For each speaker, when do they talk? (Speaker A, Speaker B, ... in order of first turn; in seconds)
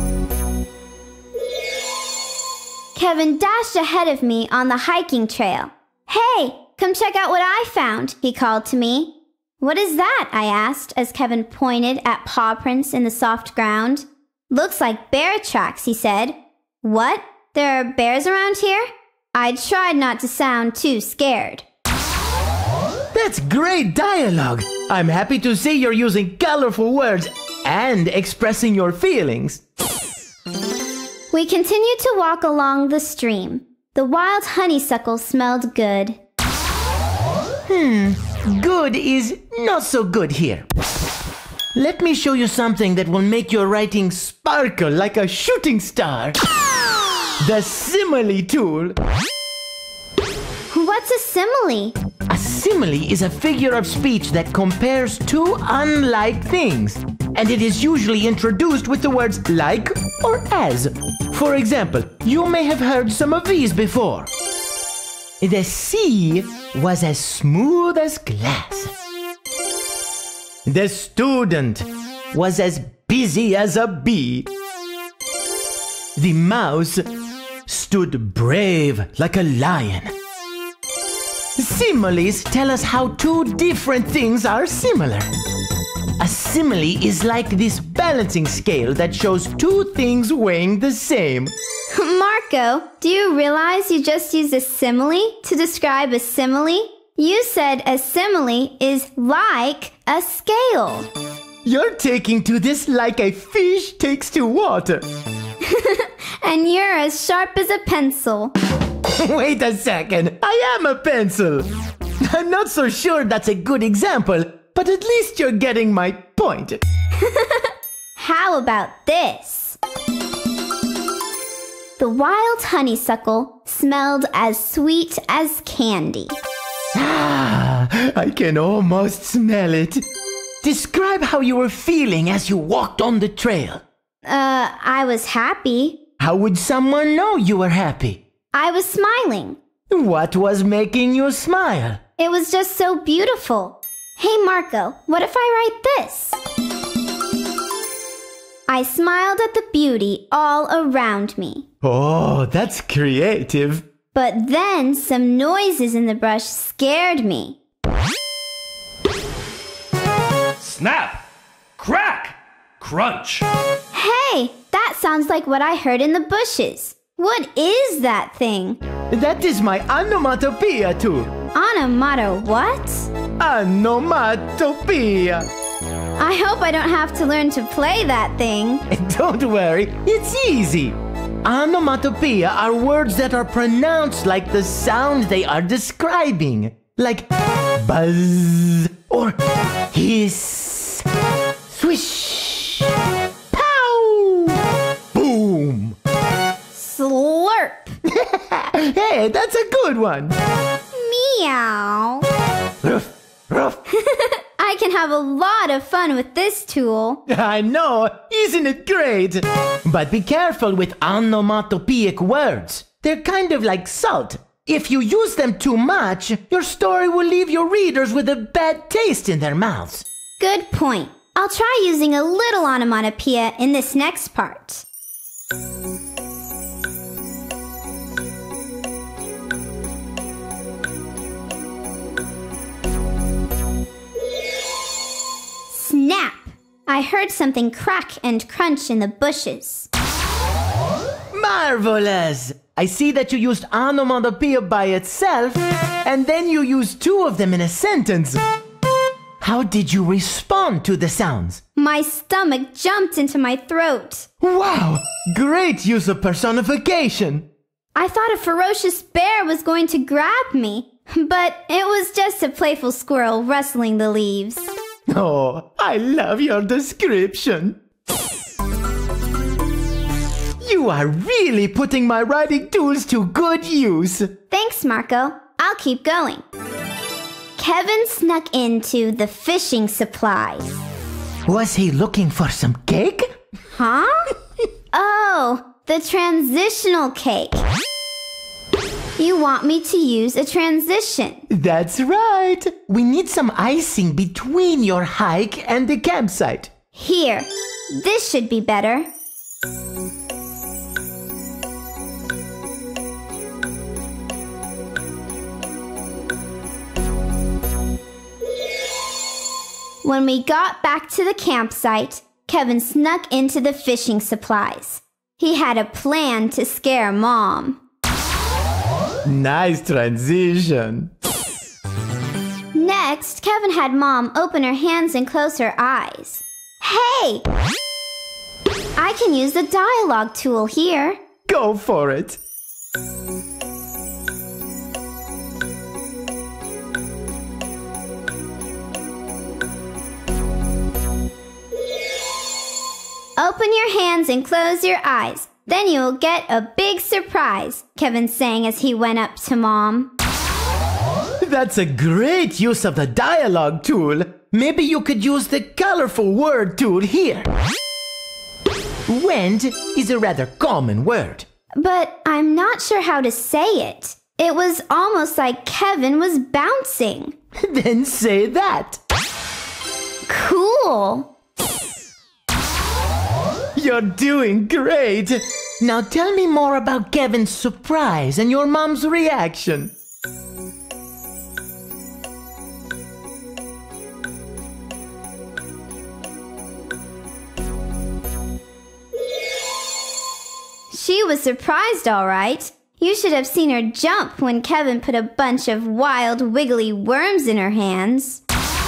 Speaker A: 2.9-21.6, 31.3-36.2, 50.7-51.9, 91.9-101.1, 105.6-108.5, 117.2-119.8, 122.0-126.3, 134.2-136.0, 138.5-139.6, 142.2-146.4, 148.7-151.7, 154.1-157.6, 163.9-168.8, 171.5-173.1, 176.2-178.8, 196.7-197.9, 200.9-202.2, 203.9-207.2, 220.4-224.8, 235.7-239.9, 251.8-254.3, 257.9-264.7, 274.5-276.4, 277.6-280.8, 283.7-284.3, 284.9-287.6, 289.2-291.4, 296.9-299.1, 310.0-317.8, 322.7-327.4, 329.0-331.2, 343.4-350.1, 361.8-367.3, 370.3-371.3, 390.9-398.4
Speaker B: 23.1-29.6, 37.7-40.6, 41.7-46.4, 47.4-49.0, 52.3-64.3, 65.4-68.9, 70.7-74.5, 76.2-77.1, 77.7-80.1, 81.6-85.3, 86.2-91.5, 101.6-105.0, 109.1-111.7, 112.2-116.8, 126.9-130.0, 130.6-133.8, 136.2-138.2, 139.9-142.0, 151.8-153.8, 169.1-171.3, 173.4-175.5, 178.9-189.4, 189.9-191.1, 191.7-192.9, 193.5-194.6, 195.1-195.9, 198.0-200.3, 202.8-203.8, 207.3-220.1, 241.3-248.4, 249.4-251.6, 254.4-257.5, 265.1-267.8, 270.6-274.3, 281.4-283.3, 291.5-296.7, 319.2-321.1, 331.4-332.4, 351.4-357.5, 359.1-361.4, 367.6-369.0, 373.7-379.9
Speaker C: 160.6-161.2, 161.8-163.4